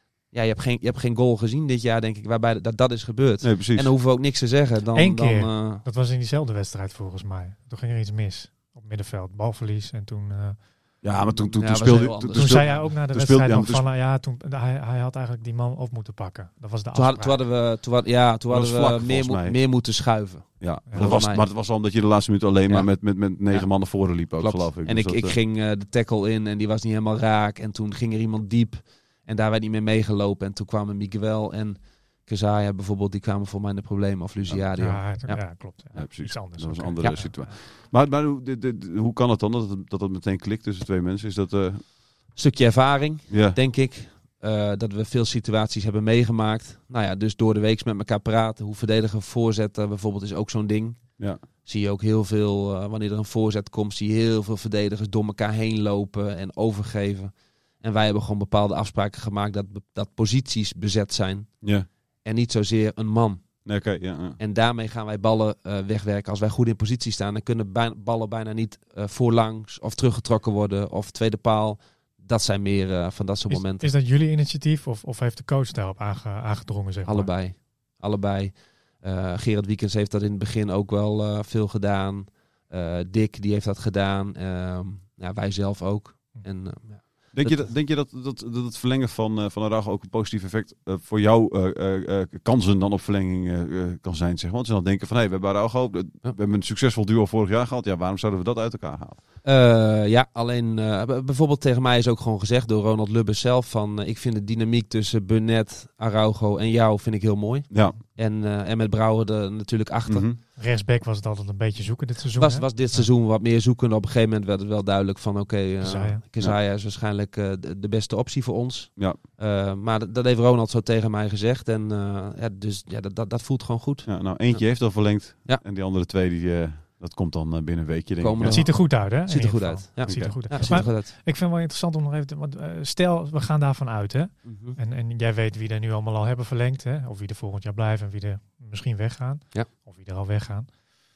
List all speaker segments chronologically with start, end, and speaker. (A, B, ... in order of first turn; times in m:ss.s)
0:00.3-0:05.8 A
0:03.4-0:03.9 B
0:04.9-0:10.6 C
0:11.0-0:13.8 B
0:11.6-0:12.9 A
0:12.3-0:17.4 C
0:16.9-0:21.5 A
0:18.5-0:19.6 B
0:20.6-0:25.3 B
0:22.7-0:35.5 A
0:34.8-0:37.5 C
0:35.9-0:41.8 B
0:42.3-1:01.6 A
0:43.3-0:43.6 B
1:01.6-1:01.9 B
1:02.2-1:03.6 A
1:03.6-1:04.4 B
1:04.4-1:13.9 A
1:13.5-1:17.3 C
1:17.0-1:27.7 A
1:27.3-1:39.2 B
1:39.4-1:50.3 A
1:47.7-1:48.0 B
1:50.1-1:50.4 B
1:50.6-1:53.1 C
1:52.3-2:05.6 A
1:55.8-1:56.2 C
2:04.0-2:08.7 B
2:08.2-2:11.1 A
2:08.5-2:20.7 C
2:10.1-2:10.9 B
2:14.4-2:14.8 A